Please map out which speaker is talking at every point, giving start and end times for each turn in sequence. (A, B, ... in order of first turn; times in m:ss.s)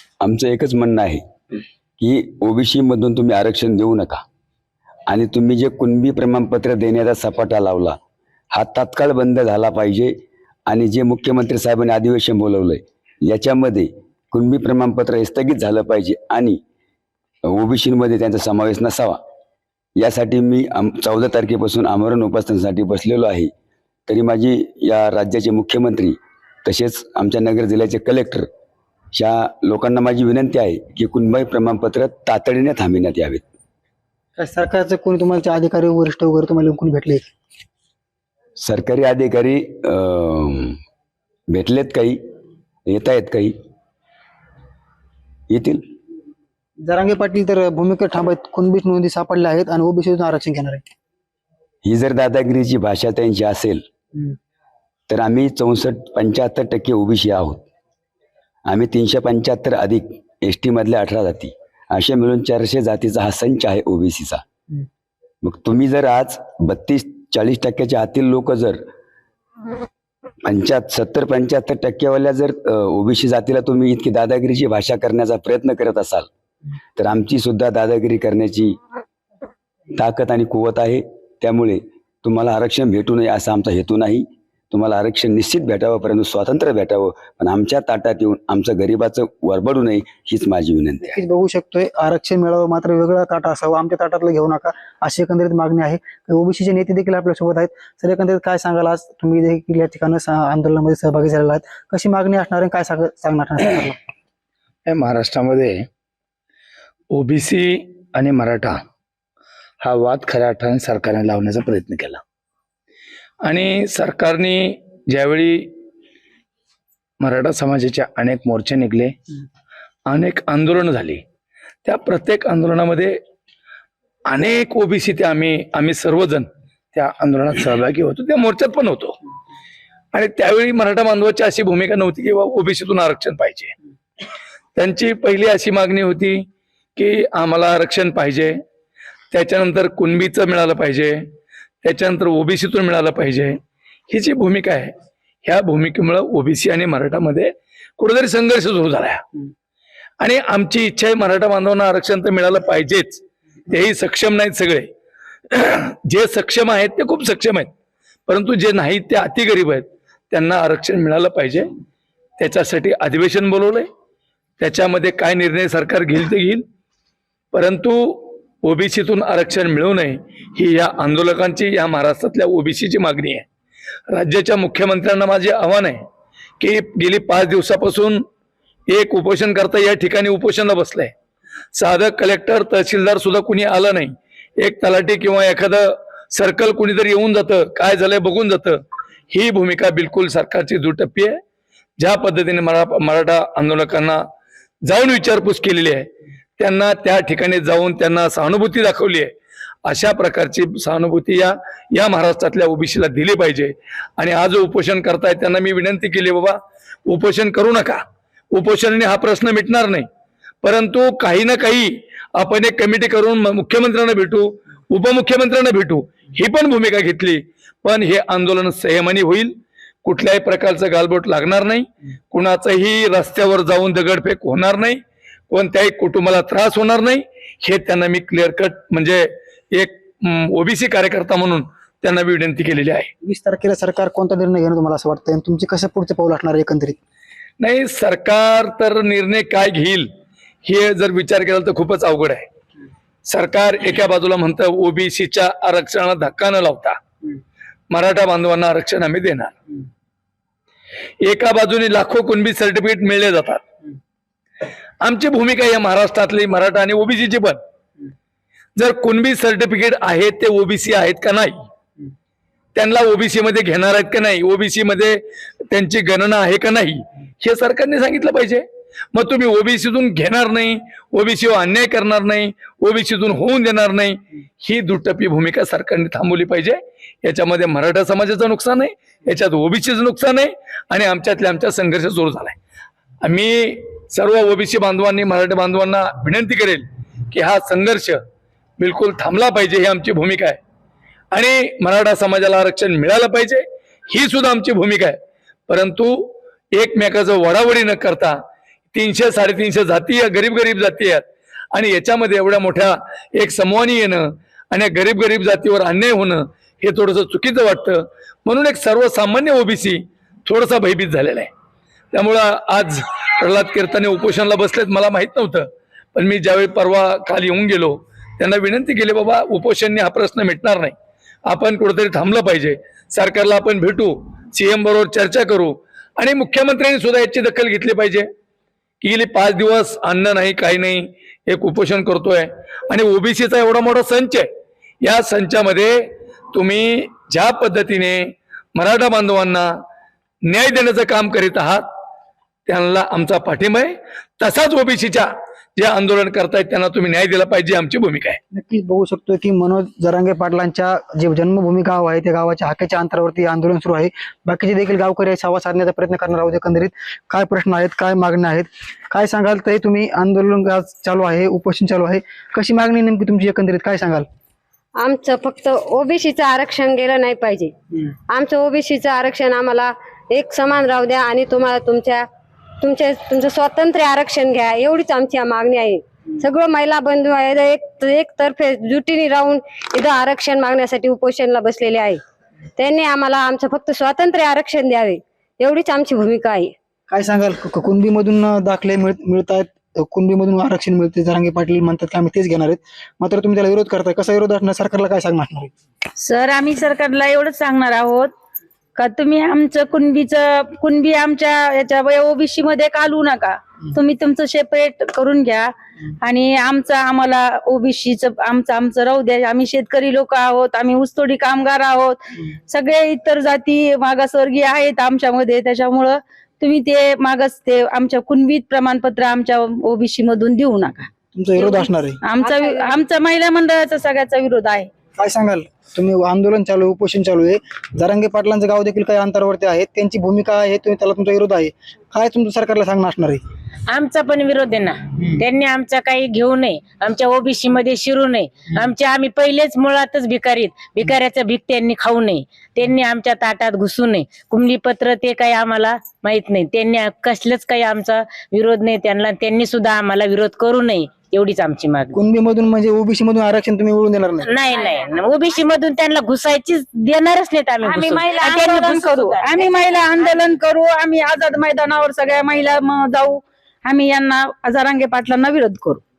0:00.2-0:01.2 A
0:02.0-0:04.2 A
0:05.1-0:08.0 A
0:08.5-0:10.2 A
0:10.7-0:16.6 A
0:17.5-0:19.2 A
0:20.0-0:23.5 A
0:24.1-0:28.5 A
0:29.1-0:33.4 A
0:34.4-0:37.3 B
0:38.6-0:40.8 A
0:41.5-0:42.2 A
0:42.9-0:43.5 A
0:45.5-0:45.8 A
0:46.8-0:50.9 B
0:51.8-0:53.8 A
0:55.1-0:57.6 A
0:58.7-1:04.4 A
1:05.4-1:08.8 A
1:10.4-1:16.3 A
1:17.0-1:18.8 A
1:19.9-1:31.2 A
1:31.0-1:44.0 B
1:44.9-1:45.9 C
1:47.1-1:48.8 C
1:49.8-1:52.2 C
1:53.4-1:55.7 C
1:57.2-1:59.2 C
2:00.1-2:01.2 C
2:01.8-2:03.2 C
2:04.3-2:09.2 C
2:10.1-2:13.7 C
2:14.8-2:18.6 C
2:19.3-2:21.3 C
2:21.8-2:23.6 C
2:24.1-2:24.9 C
2:25.4-2:29.2 C
2:30.2-2:34.9 C
2:35.5-2:37.7 C
2:38.3-2:41.7 C
2:42.4-2:43.9 C
2:44.6-2:46.6 C
2:47.5-2:53.5 C
2:54.1-2:56.0 C
2:56.6-2:58.2 C
2:58.9-3:01.1 C
3:01.8-3:08.8 C
3:09.3-3:11.4 C
3:12.0-3:14.2 C
3:14.9-3:16.1 C
3:16.6-3:19.3 C
3:19.8-3:30.1 C
3:30.6-3:53.1 C
3:53.2-3:57.0 B
3:57.6-4:00.1 C
4:00.6-4:02.5 C
4:03.3-4:07.0 C
4:07.9-4:09.6 C
4:11.2-4:13.6 C
4:15.0-4:17.6 C
4:18.8-4:21.7 C
4:22.8-4:42.6 C
4:43.2-4:48.2 C
4:48.8-4:50.6 C
4:51.3-4:58.4 C
4:58.9-5:11.5 C
5:12.1-5:21.0 C
5:21.5-5:28.3 C
5:29.0-5:34.5 C
5:35.0-5:39.7 C
5:40.5-5:41.9 C
5:42.7-5:48.4 C
5:48.5-6:04.3 B
6:05.0-6:12.2 D
6:12.8-6:22.2 D
6:22.8-6:26.7 D
6:27.1-6:35.7 B
6:36.2-6:38.3 E
6:39.0-7:04.9 E
7:01.3-7:02.2 B
7:02.4-7:02.9 D
7:05.2-7:13.4 B
7:13.9-7:32.2 F
7:32.1-7:34.5 B
7:34.4-7:40.6 F
7:37.8-7:46.0 E